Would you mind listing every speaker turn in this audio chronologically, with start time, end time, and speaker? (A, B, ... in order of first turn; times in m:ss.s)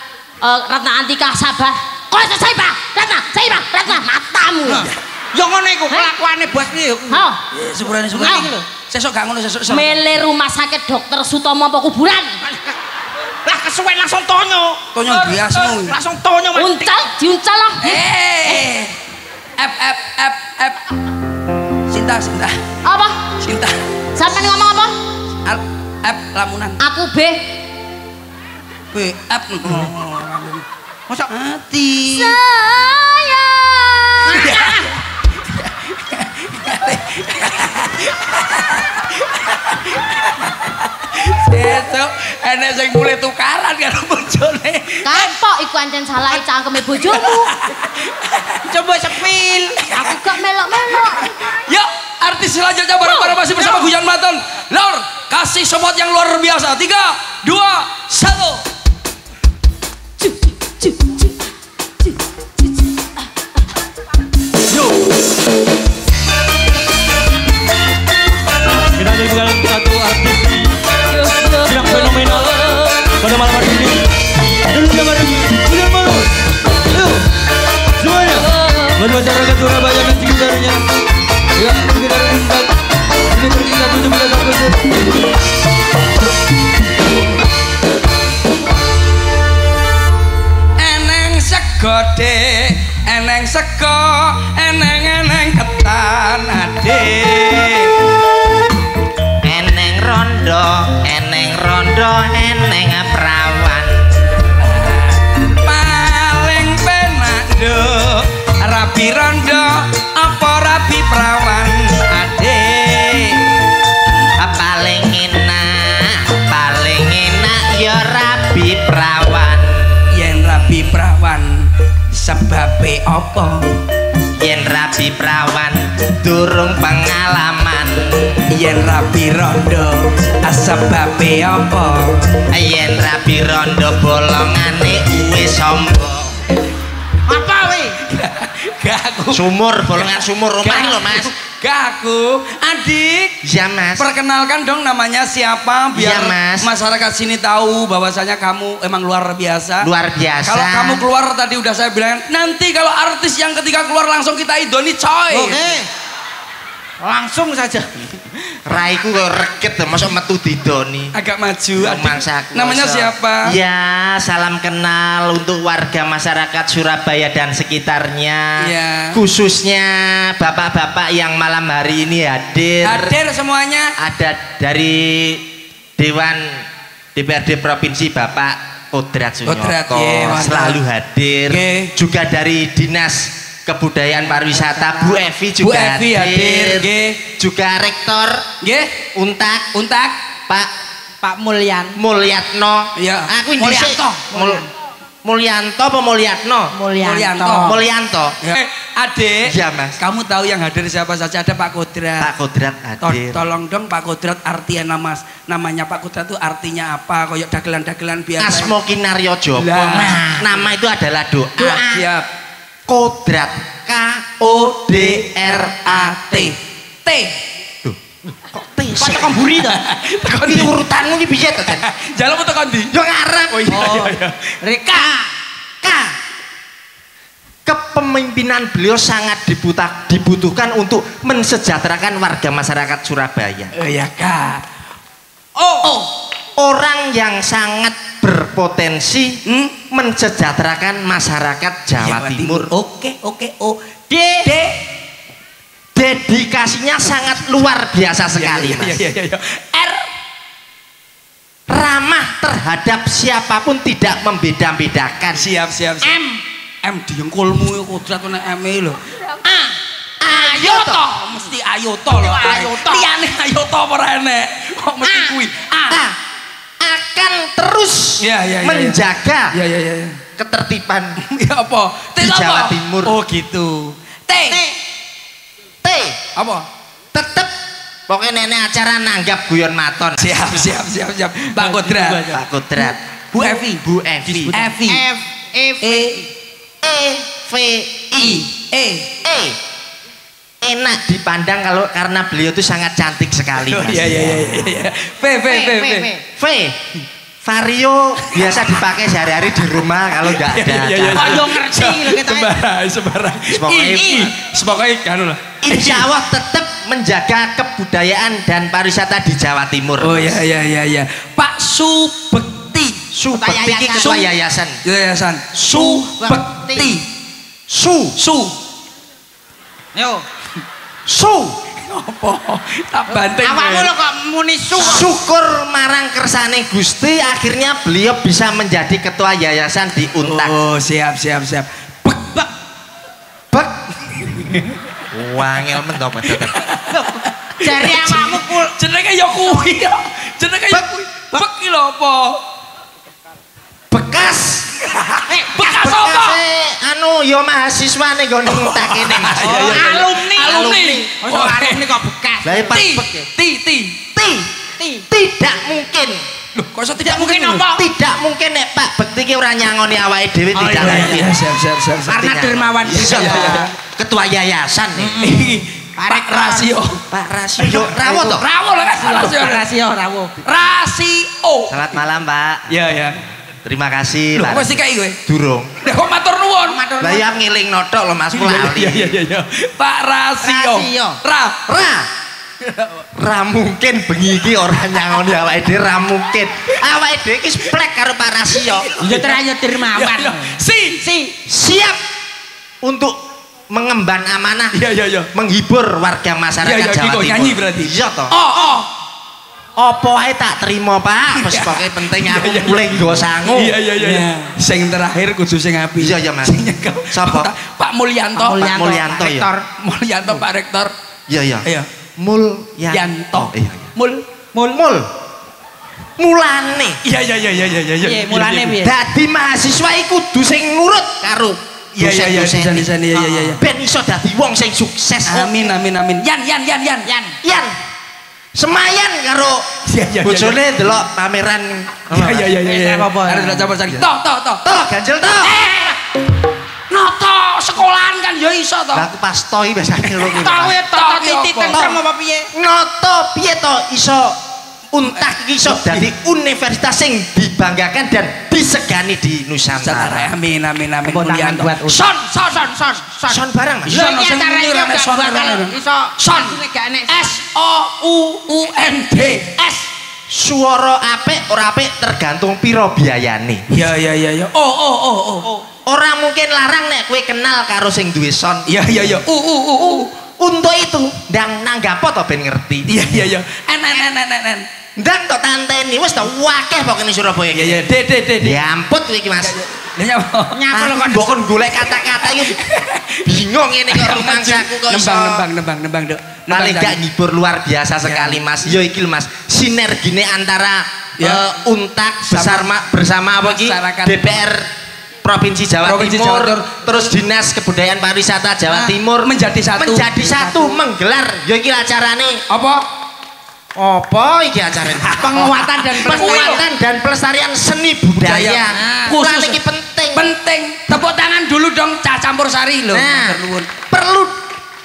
0:00.4-0:04.9 A
0:04.7-0:07.2 B
0:07.1-0:07.4 A
0:07.5-0:10.1 C
0:08.1-0:08.7 B
0:09.7-0:12.4 A
0:12.5-0:12.7 B
0:13.4-0:14.8 B
0:14.9-0:16.0 C
0:15.6-0:17.1 B
0:16.5-0:18.0 A
0:17.8-0:18.9 C
0:19.6-0:20.8 C
0:21.9-0:22.7 C
0:22.8-0:23.2 A
0:23.4-0:23.8 C
0:24.2-0:25.0 A
0:25.5-0:26.8 C
0:26.8-0:27.5 A
0:28.9-0:30.6 C
0:31.3-0:32.4 C
0:32.1-0:34.9 A
0:34.3-0:34.9 C
0:35.5-0:45.3 C
0:45.0-0:47.5 A
0:47.1-0:48.6 C
0:48.6-0:49.8 B
0:49.8-0:50.2 C
0:49.9-0:51.3 A
0:50.9-0:58.6 C
0:53.0-0:53.8 A
1:00.2-1:01.3 A
1:09.0-1:10.6 D
1:11.1-1:13.0 A
1:11.7-1:12.7 D
1:13.2-1:14.0 D
1:14.8-1:16.2 D
1:18.0-1:18.4 D
1:18.3-1:19.2 A
1:19.0-1:20.8 D
1:21.6-1:22.7 D
1:23.4-1:24.7 D
1:30.8-1:38.0 C
1:39.4-1:44.1 E
1:44.6-1:53.5 C
1:54.4-2:00.0 E
2:00.1-2:03.7 C
2:04.4-2:08.4 E
2:08.5-2:12.4 C
2:12.5-2:16.4 E
2:17.3-2:18.0 B
2:18.1-2:19.5 C
2:19.3-2:21.3 E
2:20.6-2:23.4 C
2:23.4-2:24.1 E
2:24.0-2:29.9 C
2:25.9-2:26.7 E
2:29.8-2:31.1 E
2:30.4-2:35.7 C
2:35.3-2:35.9 B
2:37.0-2:38.1 B
2:38.6-2:41.2 E
2:41.1-2:43.6 C
2:41.8-2:53.2 E
2:48.6-2:49.2 C
2:52.8-2:54.0 C
2:54.0-3:08.5 E
2:59.5-3:00.8 C
3:01.5-3:01.9 C
3:04.8-3:05.2 B
3:05.6-3:07.2 C
3:08.6-3:09.0 C
3:09.2-3:09.7 E
3:09.7-3:10.2 C
3:11.2-3:12.0 B
3:12.0-3:14.7 E
3:13.0-3:14.0 C
3:13.5-3:14.7 B
3:15.2-3:16.8 E
3:16.7-3:17.8 B
3:17.0-3:17.8 C
3:17.6-3:18.4 E
3:18.4-3:22.3 C
3:19.4-3:20.0 E
3:22.2-3:23.4 E
3:23.0-3:28.7 C
3:28.4-3:32.0 E
3:29.6-3:30.2 C
3:30.1-3:30.4 B
3:31.6-3:32.0 B
3:31.8-3:32.3 C
3:32.9-3:36.5 E
3:34.5-3:35.3 C
3:35.8-3:37.4 C
3:37.8-3:39.5 E
3:39.0-3:39.8 B
3:39.6-3:40.8 C
3:40.4-3:41.8 E
3:41.8-3:42.9 C
3:42.9-3:43.8 E
3:43.5-3:44.6 C
3:43.7-3:45.3 B
3:45.8-3:46.1 E
3:47.7-3:53.7 E
3:53.7-3:54.6 C
3:55.6-3:55.9 B
3:55.8-4:02.7 E
3:59.5-3:59.8 C
4:02.0-4:03.8 C
4:04.1-4:04.5 B
4:04.4-4:04.8 C
4:05.9-4:09.0 E
4:08.4-4:10.1 C
4:11.7-4:15.5 E
4:15.3-4:16.2 C
4:16.0-4:16.4 B
4:16.8-4:19.0 C
4:19.4-4:19.8 B
4:20.2-4:21.1 E
4:20.3-4:26.0 C
4:22.1-4:23.1 B
4:25.0-4:25.3 B
4:25.9-4:26.2 E
4:26.8-4:29.5 E
4:28.2-4:30.2 C
4:30.4-4:31.2 E
4:31.2-4:34.6 C
4:32.2-4:33.2 E
4:34.5-4:34.8 B
4:35.8-4:36.2 E
4:36.4-4:36.7 C
4:37.1-4:37.5 E
4:38.1-4:40.7 E
4:40.2-4:42.4 C
4:41.6-4:42.3 B
4:42.2-4:44.6 E
4:43.3-4:45.0 C
4:44.6-4:46.3 B
4:45.8-4:46.2 C
4:46.8-4:48.5 E
4:48.2-4:49.2 C
4:49.2-4:49.6 E
4:50.6-4:54.7 E
4:53.6-4:56.1 C
4:55.5-4:56.2 B
4:56.2-4:56.8 E
4:57.4-5:01.5 E
4:58.2-4:58.6 C
5:00.3-5:06.1 C
5:01.2-5:02.6 B
5:03.5-5:04.3 E
5:04.0-5:04.2 B
5:05.6-5:10.4 E
5:10.0-5:13.0 C
5:13.1-5:14.8 E
5:13.3-5:14.3 B
5:14.0-5:14.3 C
5:14.8-5:17.1 C
5:15.5-5:16.2 E
5:15.8-5:16.9 B
5:17.7-5:18.2 E
5:18.2-5:18.6 C
5:20.0-5:20.2 B
5:21.1-5:21.6 E
5:21.7-5:23.9 C
5:23.1-5:25.1 B
5:24.7-5:30.6 E
5:30.2-5:32.4 C
5:33.5-5:33.8 E
5:34.1-5:34.7 C
5:35.1-5:36.6 E
5:36.2-5:42.4 C
5:36.9-5:38.7 B
5:43.9-5:44.8 E
5:44.8-5:46.4 C
5:45.3-5:45.8 B
5:45.6-5:51.1 E
5:48.5-5:51.9 C
5:49.4-5:52.7 B
5:52.4-5:53.3 E
5:52.7-5:54.0 C
5:54.2-5:54.5 E
5:54.8-5:55.1 B
5:55.1-5:56.2 E
5:56.6-5:57.7 C
5:57.0-5:57.9 B
5:57.8-6:01.3 E
6:00.6-6:02.3 C
6:00.6-6:01.2 B
6:02.1-6:03.7 B
6:02.1-6:05.2 E
6:02.9-6:03.7 C
6:05.0-6:06.7 B
6:05.2-6:07.0 C
6:07.1-6:08.5 E
6:07.6-6:09.7 C
6:07.8-6:08.3 B
6:08.9-6:10.3 B
6:10.4-6:11.9 C
6:11.7-6:12.7 E
6:12.7-6:13.2 C
6:13.6-6:15.8 E
6:14.4-6:15.2 C
6:15.8-6:16.8 C
6:16.7-6:17.2 B
6:17.0-6:19.1 E
6:18.3-6:21.6 C
6:20.4-6:21.2 B
6:21.7-6:22.1 E
6:22.6-6:23.1 C
6:23.2-6:28.9 E
6:28.7-6:31.0 C
6:29.0-6:31.4 B
6:31.5-6:32.0 E
6:32.8-6:33.2 E
6:33.7-6:34.8 E
6:34.7-6:35.3 C
6:35.3-6:38.3 E
6:36.6-6:38.9 C
6:39.8-6:44.2 E
6:41.3-6:42.9 C
6:43.5-6:48.7 C
6:46.0-6:47.5 E
6:48.4-6:49.7 B
6:48.6-6:49.5 E
6:49.8-6:50.9 C
6:51.3-6:53.9 E
6:51.6-6:51.9 C
6:52.9-6:54.2 C
6:54.5-6:55.1 E
6:56.2-6:57.0 E
6:57.0-6:58.8 C
6:58.0-6:59.0 B
6:58.8-7:02.9 E
7:02.0-7:03.6 C
7:03.2-7:03.6 B
7:03.6-7:05.7 E
7:05.3-7:07.1 C
7:07.1-7:07.4 B
7:07.4-7:07.8 E
7:08.6-7:12.5 E
7:09.9-7:10.6 C
7:12.1-7:14.6 C
7:12.6-7:13.7 B
7:14.6-7:15.6 E
7:15.4-7:16.0 C
7:16.9-7:19.1 C
7:18.9-7:20.8 E
7:20.0-7:21.9 C
7:20.3-7:22.5 B
7:21.7-7:22.0 E
7:22.5-7:24.4 E
7:24.9-7:30.3 E
7:25.2-7:26.1 C
7:29.8-7:32.3 C
7:31.0-7:37.4 B
7:33.3-7:34.1 E
7:33.9-7:39.6 C
7:38.0-7:38.4 B
7:39.2-7:39.8 B
7:40.3-7:43.6 E
7:43.7-7:45.5 C
7:45.9-7:49.2 E
7:48.7-7:50.1 C
7:50.4-7:53.0 E
7:52.9-7:54.7 C
7:55.0-7:57.8 E
7:57.5-7:58.6 C
7:58.4-7:59.6 E
7:59.4-8:00.6 C
8:00.5-8:01.4 B
8:00.7-8:02.6 E
8:02.2-8:03.3 C
8:03.2-8:05.4 E
8:03.9-8:07.0 C
8:06.5-8:14.7 E
8:08.0-8:08.4 C
8:11.2-8:11.4 C
8:12.3-8:12.7 C
8:13.4-8:14.3 C
8:15.2-8:22.4 E
8:15.8-8:16.7 C
8:18.7-8:18.9 B
8:19.2-8:20.2 C
8:20.4-8:20.8 B
8:22.5-8:22.8 C
8:23.8-8:30.3 E
8:25.1-8:26.6 B
8:26.0-8:26.6 C
8:28.2-8:28.6 C
8:28.7-8:29.6 B
8:30.1-8:33.7 C
8:32.9-8:34.4 E